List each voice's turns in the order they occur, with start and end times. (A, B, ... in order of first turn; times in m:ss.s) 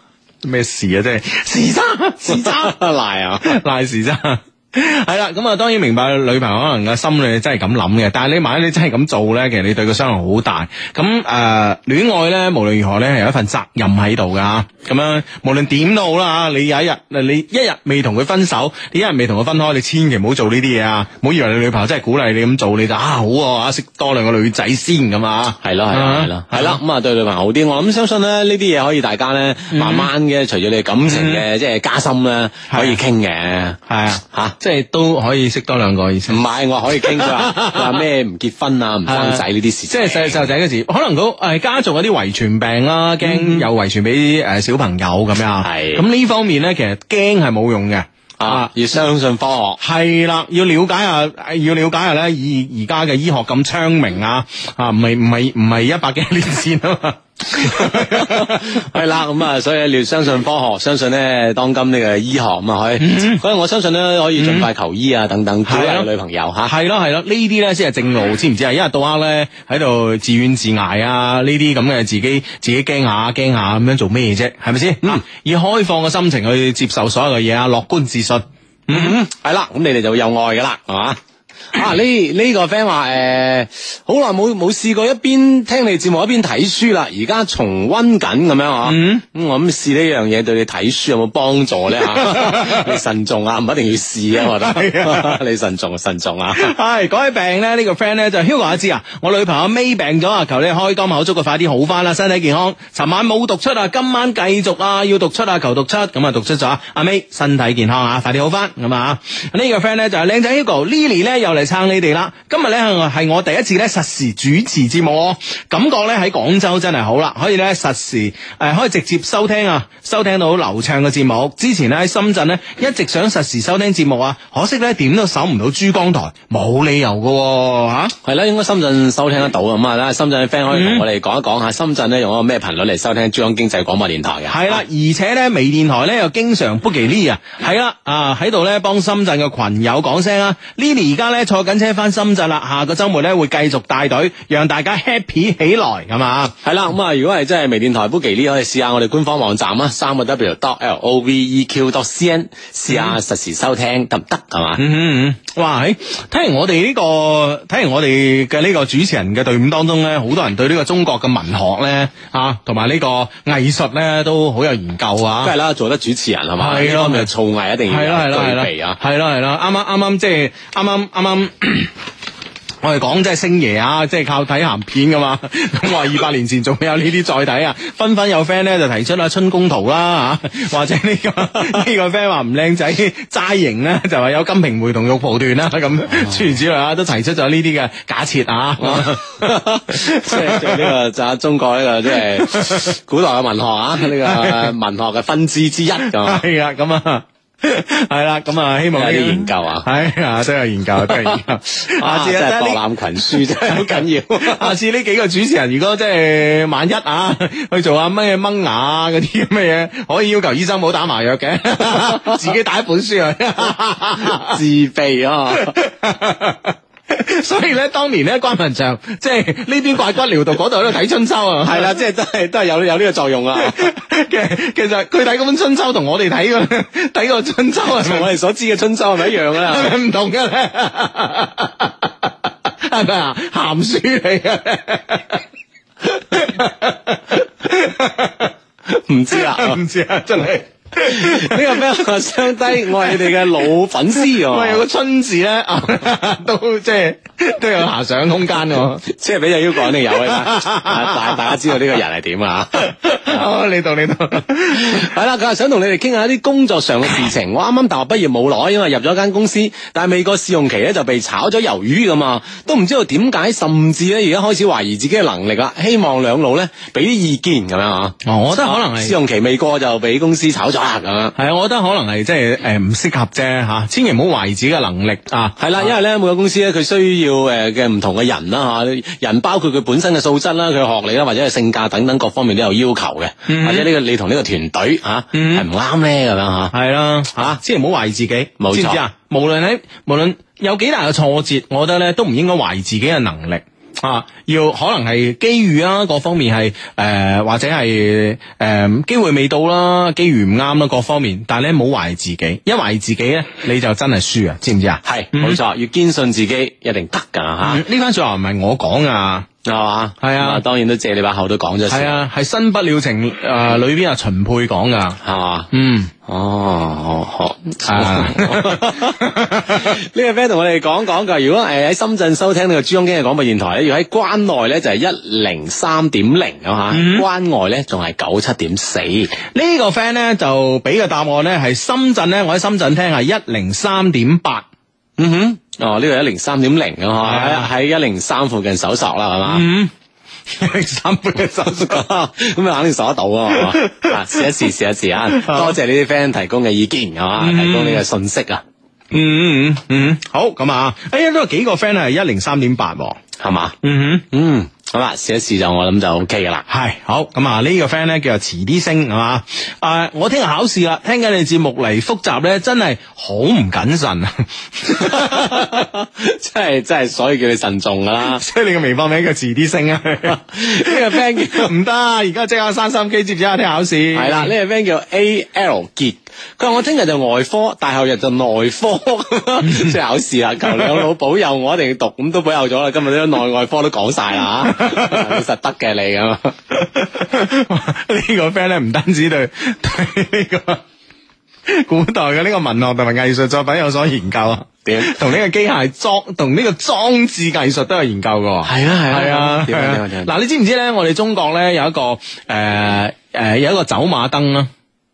0:00.4-0:02.8 A
0:02.3-0:03.6 B
0:03.4-0:26.8 A
0:25.6-0:34.6 B
0:29.7-0:30.1 A
0:31.1-0:31.4 A
0:32.7-0:33.0 A
0:33.9-0:36.4 A
0:36.3-0:40.5 B
0:37.0-0:37.9 A
0:39.1-0:48.7 A
0:43.2-0:43.7 B
0:45.6-0:46.0 B
0:48.4-0:49.8 B
0:49.8-0:58.8 A
0:57.6-1:06.7 B
1:03.0-1:03.4 A
1:04.4-1:04.7 A
1:05.7-1:06.1 A
1:06.6-1:19.2 A
1:18.9-1:21.2 B
1:21.7-1:36.7 B
1:28.8-1:29.2 A
1:32.2-1:32.9 A
1:34.5-1:35.4 A
1:36.5-2:08.2 A
2:08.2-2:14.8 B
2:10.7-2:11.0 A
2:14.5-2:26.6 A
2:26.6-2:34.8 B
2:32.9-2:33.2 A
2:34.8-2:45.5 A
2:45.4-2:49.0 B
2:46.6-2:47.3 A
2:47.9-2:51.9 A
2:52.8-3:10.9 A
3:06.1-3:06.5 B
3:08.8-3:16.4 B
3:12.3-3:12.9 A
3:14.0-3:14.7 A
3:16.1-3:34.6 A
3:18.9-3:19.9 B
3:21.0-3:24.8 B
3:32.0-3:32.3 B
3:34.2-3:35.8 B
3:35.6-3:42.0 A
3:41.6-3:43.9 B
3:43.6-3:48.3 A
3:47.8-3:49.9 B
3:49.4-3:55.4 A
3:56.0-3:58.5 A
3:58.9-3:59.8 B
3:59.3-4:01.8 A
4:01.0-4:04.8 B
4:02.8-4:03.5 A
4:04.2-4:09.0 A
4:09.0-4:13.4 B
4:10.1-4:11.6 A
4:12.8-4:15.1 A
4:14.7-4:31.4 B
4:28.2-4:29.2 A
4:31.4-4:35.6 A
4:35.6-4:46.7 B
4:43.5-4:43.9 A
4:45.3-4:45.7 A
4:46.7-5:05.6 A
4:48.6-4:49.0 B
5:05.0-5:07.8 B
5:07.6-5:09.5 A
5:09.6-5:12.2 B
5:10.2-5:10.6 A
5:11.9-5:15.2 A
5:15.2-5:15.7 B
5:15.7-5:16.1 A
5:16.2-5:29.3 B
5:17.8-5:20.0 A
5:26.9-5:27.3 A
5:29.5-5:34.7 A
5:35.2-5:39.7 B
5:37.2-5:37.7 A
5:39.5-5:39.9 A
5:40.5-5:42.0 A
5:41.7-5:48.6 B
5:43.6-5:44.5 A
5:45.3-5:45.8 A
5:47.4-5:48.0 A
5:49.1-5:53.2 A
5:53.4-5:53.8 B
5:53.8-5:54.3 A
5:54.3-5:56.6 B
5:56.7-6:05.9 A
6:05.0-6:08.4 B
6:08.2-6:14.5 A
6:10.3-6:11.7 B
6:14.2-6:26.6 B
6:19.6-6:19.9 A
6:24.6-6:25.4 A
6:26.7-6:30.8 A
6:31.7-6:44.7 A
6:34.8-6:35.3 B
6:38.6-6:40.3 B